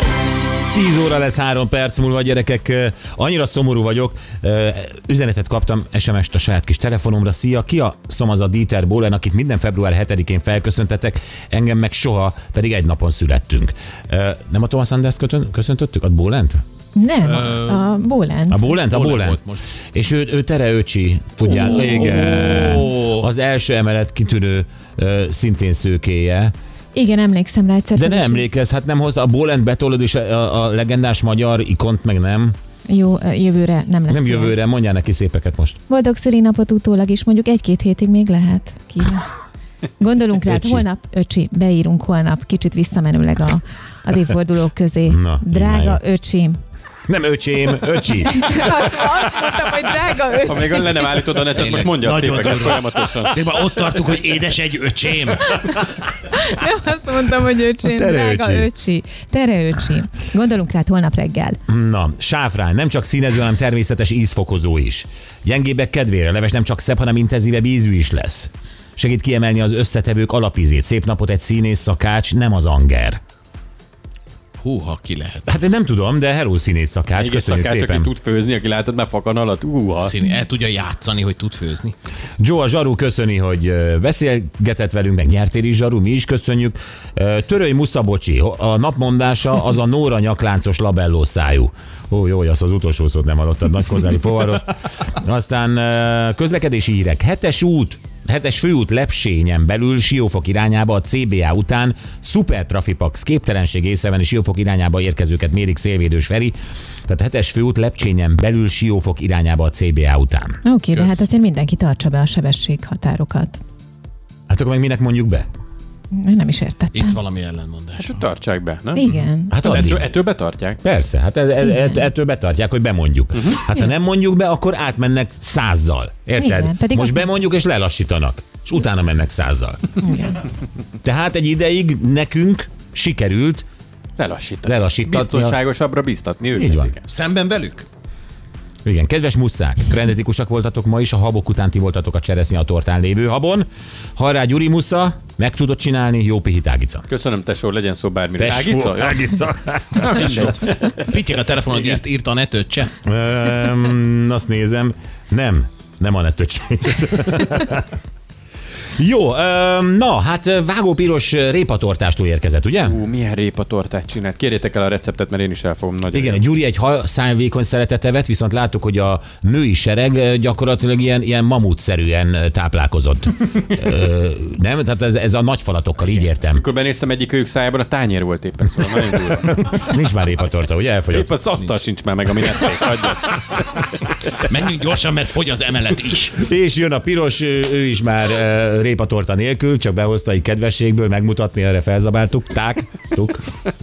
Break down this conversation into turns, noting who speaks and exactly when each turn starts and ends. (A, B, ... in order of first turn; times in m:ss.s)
0:00.7-0:16.6 A
0:17.0-0:18.8 B
0:17.3-0:17.8 C
0:18.5-0:19.4 A
0:18.9-0:19.6 C
0:19.9-0:26.5 A
0:21.5-0:23.2 C
0:26.9-0:28.4 B
0:28.0-0:32.6 A
0:32.9-0:34.6 B
0:34.1-0:35.8 A
0:35.9-0:39.3 B
0:40.0-0:46.6 B
0:40.4-0:40.8 A
0:45.0-0:46.0 A
0:47.1-0:48.6 A
0:48.2-0:51.1 B
0:50.4-0:53.4 D
0:51.5-0:55.8 C
0:56.2-1:01.6 B
0:57.8-0:58.7 A
1:01.7-1:13.2 A
1:14.6-1:15.6 C
1:15.5-1:18.1 A
1:17.2-1:20.2 D
1:20.0-1:22.0 C
1:22.4-1:46.6 A
1:47.1-1:50.6 A
1:50.6-1:53.6 B
1:50.9-1:51.2 C
1:54.5-1:55.5 A
1:56.1-1:57.2 B
1:56.9-1:58.3 C
1:58.0-2:00.8 D
1:59.0-1:59.8 B
1:59.1-2:00.1 A
2:00.8-2:09.9 A
2:01.6-2:02.0 B
2:03.3-2:03.6 D
2:06.4-2:07.3 B
2:10.0-2:10.4 B
2:11.0-2:13.7 A
2:14.2-2:17.0 D
2:14.6-2:15.6 A
2:16.6-2:17.0 A
2:17.1-2:17.9 C
2:18.8-2:27.1 A
2:27.1-2:29.3 D
2:28.4-2:30.5 A
2:30.0-2:31.2 D
2:30.1-2:32.9 C
2:33.0-2:37.9 A
2:39.0-2:43.0 A
2:42.8-2:46.4 D
2:46.1-2:56.6 A
2:56.1-2:59.6 D
2:59.6-3:01.3 A
3:01.1-3:03.6 D
3:04.4-3:06.4 C
3:06.4-3:13.5 A